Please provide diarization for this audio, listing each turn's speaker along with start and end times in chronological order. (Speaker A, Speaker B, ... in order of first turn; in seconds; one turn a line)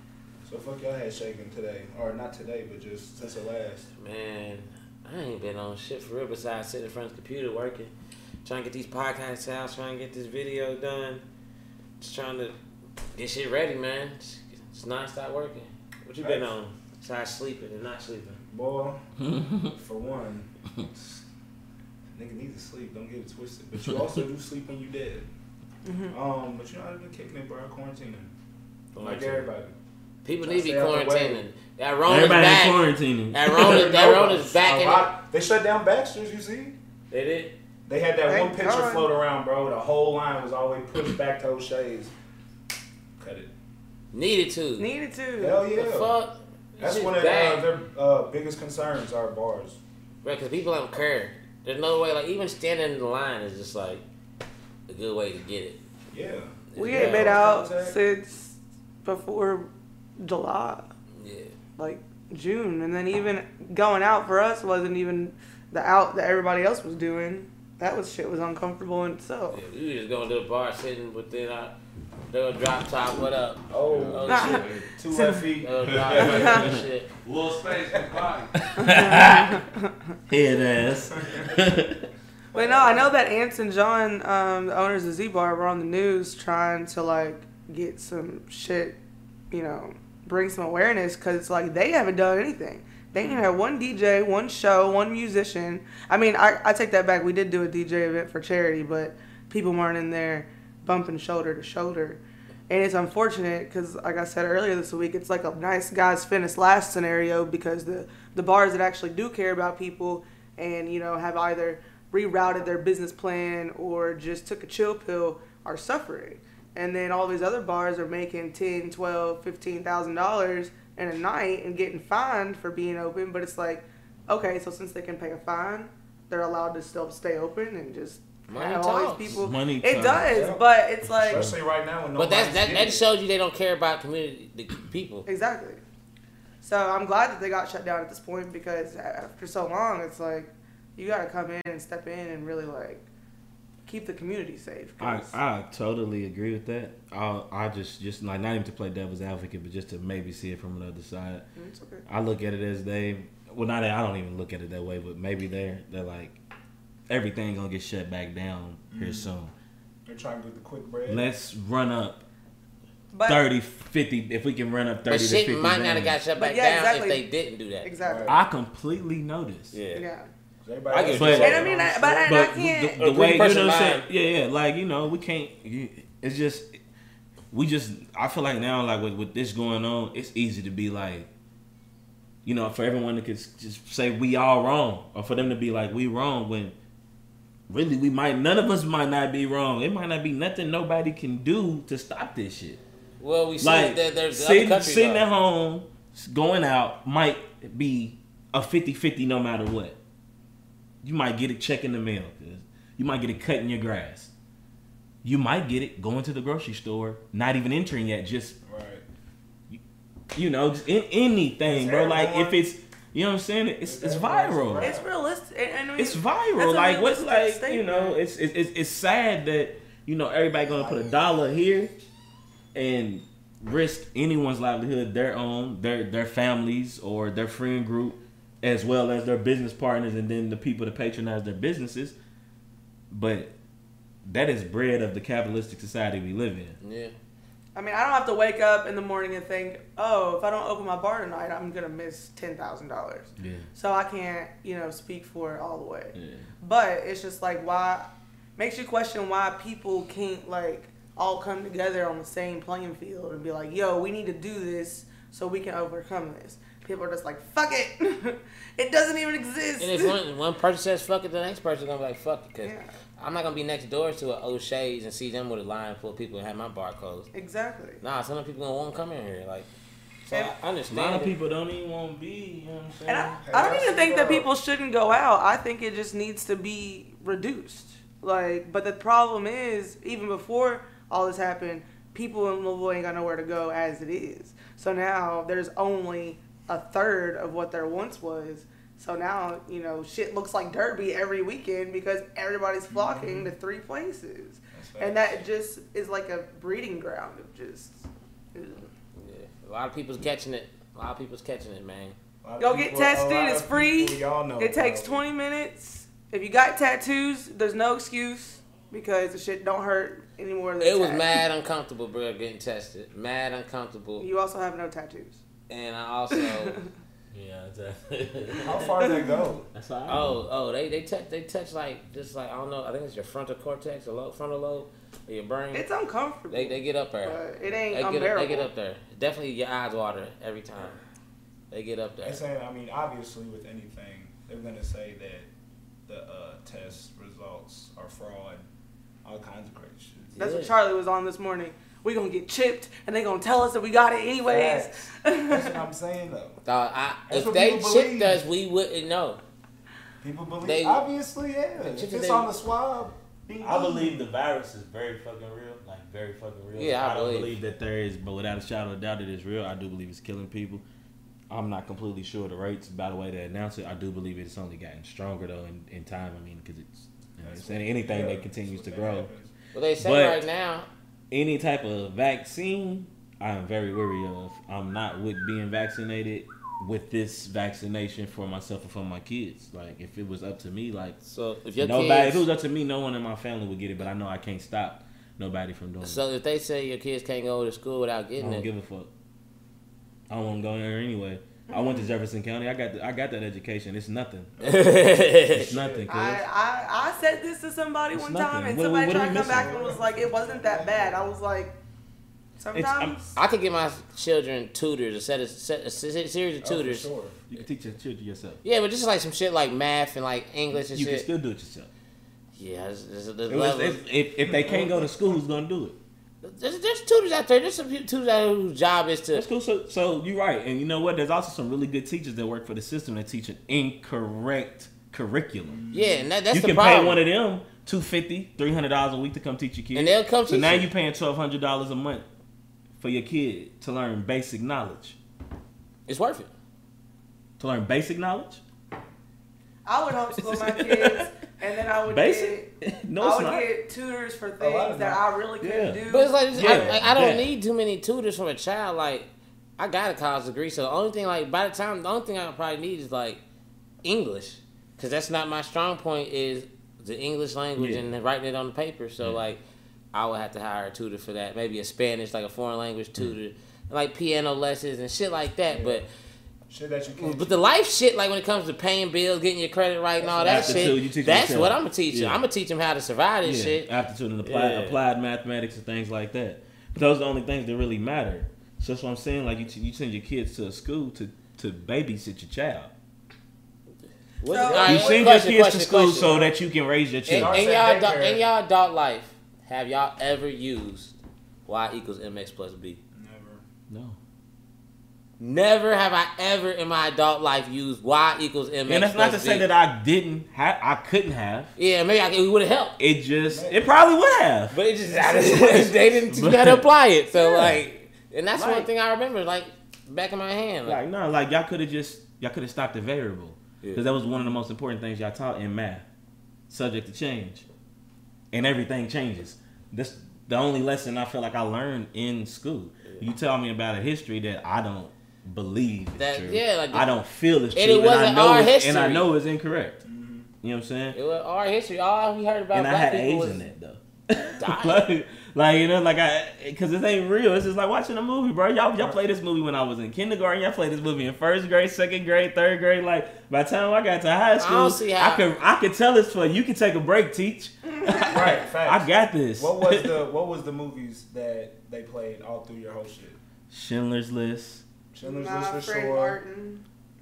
Speaker A: 0.4-3.9
Speaker B: 4.0-7.9
Speaker B: 8.4-11.2
Speaker B: 12.0-12.6
Speaker B: 13.2-18.4
Speaker A: 16.2-16.5
Speaker A: 18.5-19.0
Speaker C: 19.2-19.8
Speaker A: 19.8-20.5
Speaker A: 22.1-25.3
Speaker C: 23.8-24.2
Speaker D: 25.9-26.1
Speaker A: 26.1-28.3
Speaker B: 28.9-29.4
Speaker A: 29.0-29.8
Speaker B: 30.2-35.1
Speaker A: 30.4-31.4
Speaker C: 32.1-34.0
Speaker A: 33.6-36.8
Speaker B: 37.1-37.5
Speaker A: 37.9-42.1
Speaker D: 38.2-39.1
Speaker A: 43.2-43.5
Speaker B: 44.1-44.9
Speaker D: 44.8-45.7
Speaker A: 45.4-46.2
Speaker B: 45.7-47.7
Speaker A: 46.8-49.8
Speaker B: 50.2-54.0
Speaker B: 54.9-55.8
Speaker A: 56.1-58.0
Speaker B: 56.7-57.4
Speaker D: 56.8-60.9
Speaker B: 61.2-61.5
Speaker D: 61.8-69.6
Speaker B: 69.5-71.8
Speaker B: 72.3-74.8
Speaker A: 73.7-76.4
Speaker E: 73.9-74.6
Speaker D: 74.2-75.5
Speaker B: 75.6-77.1
Speaker E: 75.8-78.6
Speaker D: 76.1-76.7
Speaker C: 78.7-79.6
Speaker D: 78.8-79.9
Speaker C: 80.3-82.0
Speaker A: 82.5-83.1
Speaker D: 82.5-89.0
Speaker D: 89.5-131.5
Speaker A: 93.2-93.4
Speaker B: 128.5-129.4
Speaker C: 129.3-130.5
Speaker A: 130.3-130.7
Speaker A: 131.2-133.1
Speaker C: 131.3-131.6
Speaker B: 132.2-135.2
Speaker D: 135.2-135.8
Speaker D: 136.6-143.1
Speaker D: 143.9-145.3
Speaker C: 145.0-151.4
Speaker D: 151.6-152.0
Speaker C: 152.1-156.4
Speaker C: 157.1-159.5
Speaker A: 158.9-159.3
Speaker A: 160.1-161.2
Speaker C: 161.1-162.2
Speaker D: 163.1-163.4
Speaker C: 163.2-166.2
Speaker B: 165.1-167.9
Speaker D: 166.4-167.2
Speaker D: 167.8-168.4
Speaker A: 168.0-168.4
Speaker C: 168.3-169.8
Speaker B: 169.7-170.1
Speaker D: 169.9-170.3
Speaker A: 170.6-172.3
Speaker B: 170.9-171.8
Speaker D: 171.1-173.0
Speaker C: 171.1-171.7
Speaker C: 172.2-176.8
Speaker B: 173.0-174.1
Speaker C: 177.5-181.3
Speaker C: 182.4-186.8
Speaker C: 187.7-192.8
Speaker B: 193.2-195.2
Speaker C: 193.6-200.0
Speaker C: 201.0-204.3
Speaker C: 205.2-208.6
Speaker A: 208.7-209.1
Speaker C: 210.3-214.9
Speaker A: 211.7-212.6
Speaker A: 213.8-215.1
Speaker D: 214.8-218.2
Speaker C: 216.0-221.9
Speaker A: 220.7-221.2
Speaker C: 222.7-232.2
Speaker C: 233.1-233.5
Speaker C: 234.2-236.8
Speaker B: 236.8-237.1
Speaker D: 237.8-260.2
Speaker C: 243.4-243.7
Speaker C: 246.1-246.5
Speaker B: 259.8-267.3
Speaker D: 262.6-262.9
Speaker D: 267.3-268.0
Speaker B: 268.0-269.7
Speaker B: 270.3-271.3
Speaker C: 270.9-273.4
Speaker D: 273.1-298.9
Speaker A: 273.4-274.5
Speaker A: 292.9-293.5
Speaker A: 294.7-295.4
Speaker B: 299.1-302.2
Speaker A: 302.4-305.2
Speaker D: 302.6-311.4
Speaker B: 310.8-314.3
Speaker D: 314.2-315.4
Speaker B: 315.7-316.8
Speaker D: 316.3-316.9
Speaker C: 317.3-319.0
Speaker A: 318.6-319.7
Speaker D: 319.0-319.5
Speaker C: 319.7-320.4
Speaker B: 320.1-325.9
Speaker D: 325.7-328.7
Speaker B: 326.5-327.4
Speaker B: 327.9-331.0
Speaker B: 331.7-332.4
Speaker A: 332.2-335.5
Speaker A: 336.1-338.7
Speaker A: 339.2-340.3
Speaker B: 340.3-340.7
Speaker D: 340.4-345.8
Speaker A: 344.5-346.6
Speaker B: 346.6-349.4
Speaker A: 347.3-348.4
Speaker A: 350.2-354.3
Speaker B: 350.6-351.1
Speaker B: 351.8-352.5
Speaker C: 353.6-360.8
Speaker B: 356.8-357.6
Speaker C: 361.5-369.3
Speaker A: 367.4-369.5
Speaker B: 369.7-370.9
Speaker C: 370.0-370.4
Speaker C: 371.3-381.2
Speaker B: 381.2-382.4
Speaker C: 381.8-386.2
Speaker B: 386.0-388.7
Speaker C: 388.4-389.1
Speaker C: 390.3-394.5
Speaker D: 391.7-392.1
Speaker A: 394.6-396.1
Speaker B: 394.6-395.7
Speaker C: 395.6-396.4
Speaker D: 396.1-401.8
Speaker C: 398.1-399.7
Speaker A: 399.2-401.3
Speaker D: 402.6-403.3
Speaker C: 402.7-403.2
Speaker B: 403.4-407.1
Speaker A: 406.6-407.4
Speaker C: 407.5-408.6
Speaker B: 408.6-411.2
Speaker C: 410.7-411.9
Speaker B: 412.6-414.0
Speaker C: 413.5-416.0
Speaker A: 414.5-414.9
Speaker B: 416.4-419.5
Speaker C: 419.3-425.8
Speaker A: 425.6-426.3
Speaker B: 425.9-427.2
Speaker C: 426.5-432.2
Speaker B: 429.9-430.9
Speaker C: 433.0-435.2
Speaker B: 436.1-436.5
Speaker C: 437.6-438.6
Speaker D: 439.9-447.0
Speaker C: 440.4-441.3
Speaker C: 442.1-443.7
Speaker A: 444.6-445.2
Speaker C: 445.6-446.0
Speaker B: 446.1-453.4
Speaker C: 446.5-447.5
Speaker B: 454.0-459.6
Speaker C: 457.8-458.1
Speaker B: 460.1-466.1
Speaker A: 465.7-466.0
Speaker A: 466.7-467.6
Speaker B: 467.2-475.0
Speaker A: 470.2-470.9
Speaker C: 470.4-472.4
Speaker C: 473.4-482.9
Speaker B: 484.4-486.5
Speaker D: 484.4-485.3
Speaker C: 484.8-487.6
Speaker B: 487.2-493.0
Speaker A: 487.3-488.4
Speaker A: 493.1-493.6
Speaker C: 493.9-494.2
Speaker B: 495.4-499.6
Speaker C: 498.9-501.7
Speaker B: 501.8-503.0
Speaker C: 503.0-506.9
Speaker A: 503.5-503.8
Speaker B: 504.7-511.0
Speaker A: 505.2-505.9
Speaker D: 507.4-507.7
Speaker C: 508.6-508.9
Speaker C: 510.9-516.0
Speaker B: 513.8-514.1
Speaker C: 516.7-517.6
Speaker C: 518.5-530.0
Speaker B: 526.2-527.1
Speaker B: 527.7-529.3
Speaker A: 530.0-530.5
Speaker C: 530.6-531.2
Speaker B: 531.1-533.6
Speaker C: 532.7-550.2
Speaker B: 534.6-535.0
Speaker B: 544.6-545.5
Speaker D: 547.9-548.5
Speaker A: 548.2-553.4
Speaker C: 553.7-554.9
Speaker A: 555.1-556.4
Speaker D: 555.2-556.8